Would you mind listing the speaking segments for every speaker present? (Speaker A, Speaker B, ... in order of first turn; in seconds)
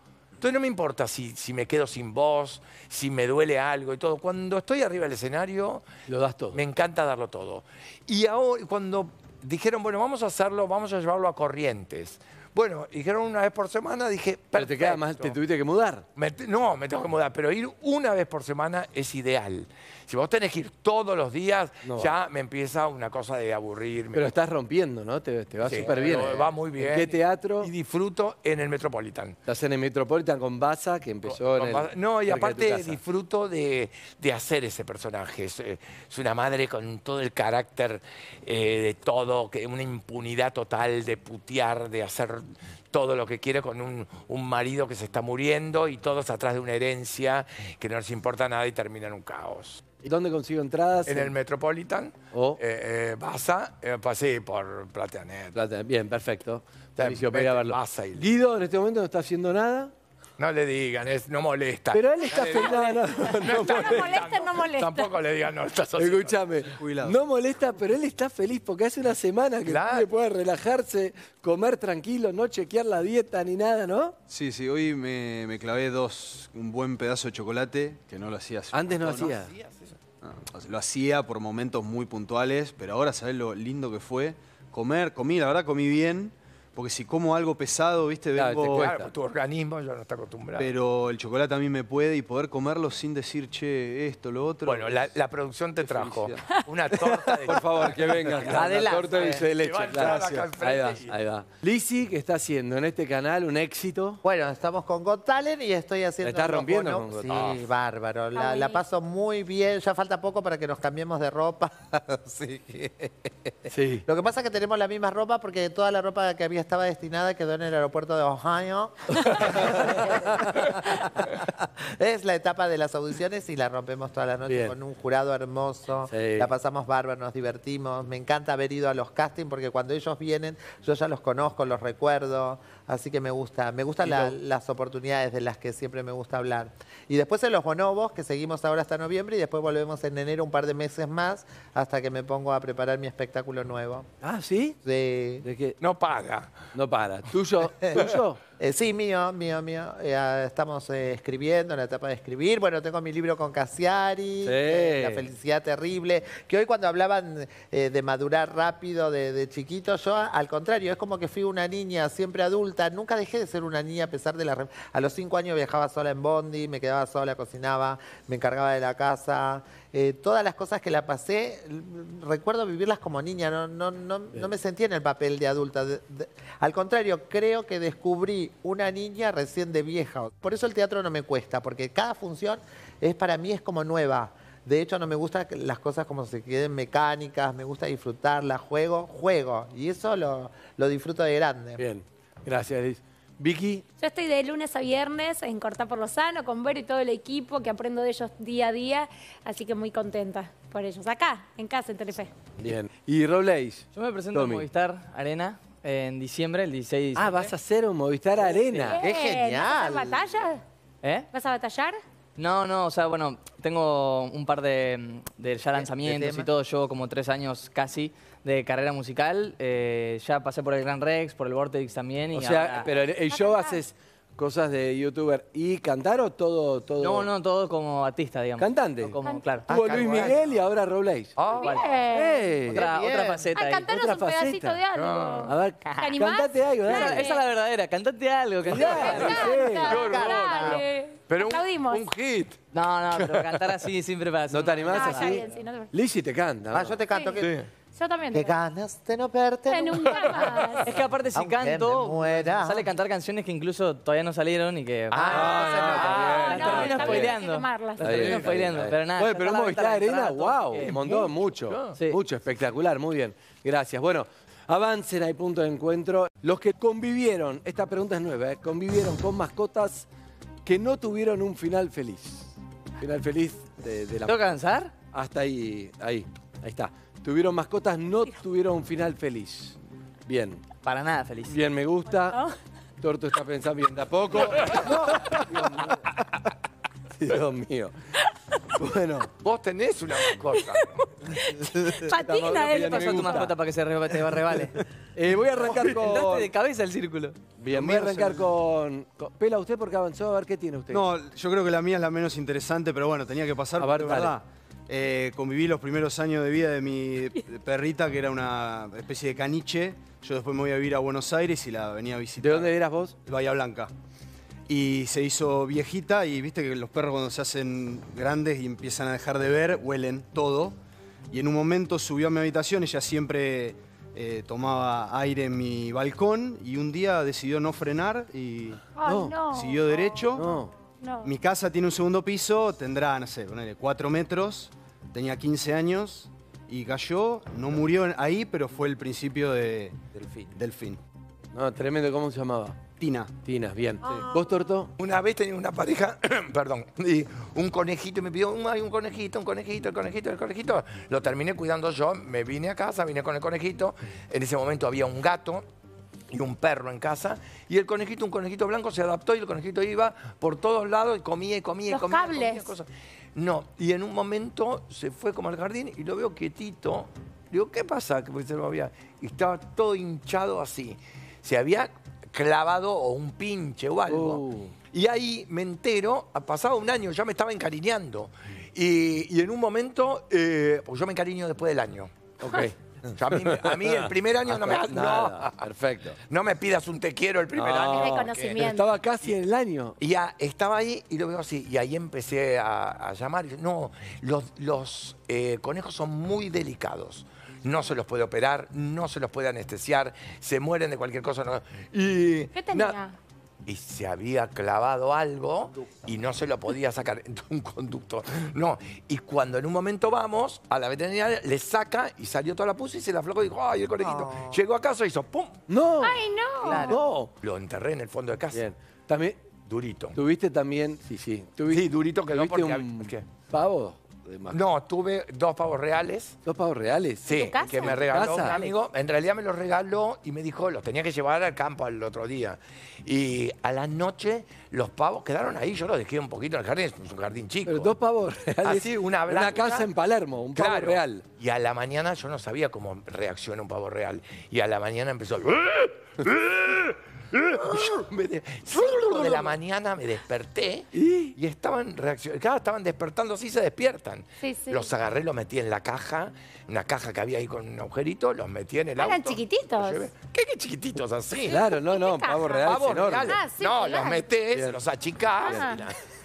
Speaker A: 0.4-5.9, 6.5-15.4, 16.2-24.3, 25.6-29.4, 31.2-49.8, 51.1-55.6, 57.0-58.3, 60.4-66.5, 69.7-70.1, 79.0-80.0, 88.6-90.7, 94.7-101.1, 107.3-107.6, 145.8-146.5, 229.7-230.4, 231.4-231.8, 234.9-235.5, 239.8-242.6, 243.2-243.6, 247.4-247.7, 250.1-250.3, 255.1-257.2, 260.9-262.0, 284.4-285.4, 289.4-291.1, 345.0-355.6, 356.3-385.6, 386.2-388.7, 390.0-403.0, 403.7-415.6, 416.7-418.6, 419.6-420.2, 421.7-423.3, 424.5-426.4, 427.2-437.9, 438.6-439.9, 440.5-461.6, 462.6-465.9
Speaker B: 6.1-6.6, 14.5-16.1, 21.8-22.1, 24.1-27.7, 29.5-33.0, 50.0-51.4, 52.3-52.6, 55.5-59.9, 61.9-64.3, 66.0-74.2, 78.7-79.5, 88.4-89.1, 95.9-96.3, 97.3-104.2, 106.2-107.5, 113.7-114.0, 119.2-120.1, 124.5-124.8, 126.1-126.5, 134.0-134.3, 144.2-144.8, 145.4-145.8, 146.7-148.4, 154.4-155.3, 191.8-193.8, 202.6-204.7, 207.2-209.0, 222.3-227.3, 228.6-229.2, 229.7-231.4, 232.1-232.8, 233.9-234.8, 235.4-237.3, 238.7-240.0, 244.5-247.0, 255.3-257.3, 258.0-270.1, 270.7-274.4, 275.1-280.6, 281.5-282.4, 283.0-286.1, 287.2-288.0, 288.8-289.3, 292.1-293.5, 295.1-296.5, 297.6-301.1, 303.8-304.3, 312.4-313.2, 329.1-329.4, 330.4-330.7, 341.5-342.9, 343.4-344.9, 374.1-374.8, 382.4-386.2, 387.5-390.0, 415.7-416.2, 416.8-417.3, 418.5-419.4, 420.1-424.6, 426.5-428.7, 437.7-441.2, 450.9-451.4, 461.5-463.4, 464.5-464.8, 465.4-465.8
Speaker C: 62.4-65.1, 108.3-108.8, 194.0-202.3, 208.9-210.6, 211.3-212.0, 223.3-223.8, 231.6-232.6, 233.6-237.4, 238.8-242.1, 244.9-245.9, 247.1-247.4, 247.9-248.6, 249.7-251.0, 255.9-258.5, 282.3-282.6, 290.3-293.4, 329.0-330.5, 331.0-331.3, 361.9-362.7, 387.9-388.9, 402.6-403.2, 416.0-417.0, 427.3-428.6, 454.4-454.9, 459.0-460.1, 461.5-464.3, 465.4-465.8
Speaker D: 66.8-67.2, 74.3-79.3, 80.2-89.0, 90.6-95.1, 295.7-296.2, 297.7-298.5, 300.9-313.9, 314.7-320.8, 321.3-328.8, 329.5-330.5, 331.2-340.0, 340.6-341.0, 343.0-343.4
Speaker E: 98.5-99.5, 104.2-144.1, 144.8-145.5, 148.6-191.8, 209.0-210.4, 215.8-216.5, 232.7-233.5, 239.9-240.8, 246.7-247.6, 248.3-252.9, 255.1-256.3, 344.0-344.6, 414.0-414.6, 448.9-449.5
Speaker F: 203.9-207.5, 211.0-211.3, 212.4-222.9, 227.0-230.3, 231.6-231.9, 232.7-233.9, 236.8-239.5, 242.7-245.4, 250.8-255.3, 255.9-261.3, 274.3-274.9, 280.8-281.6, 292.5-294.8, 295.6-297.4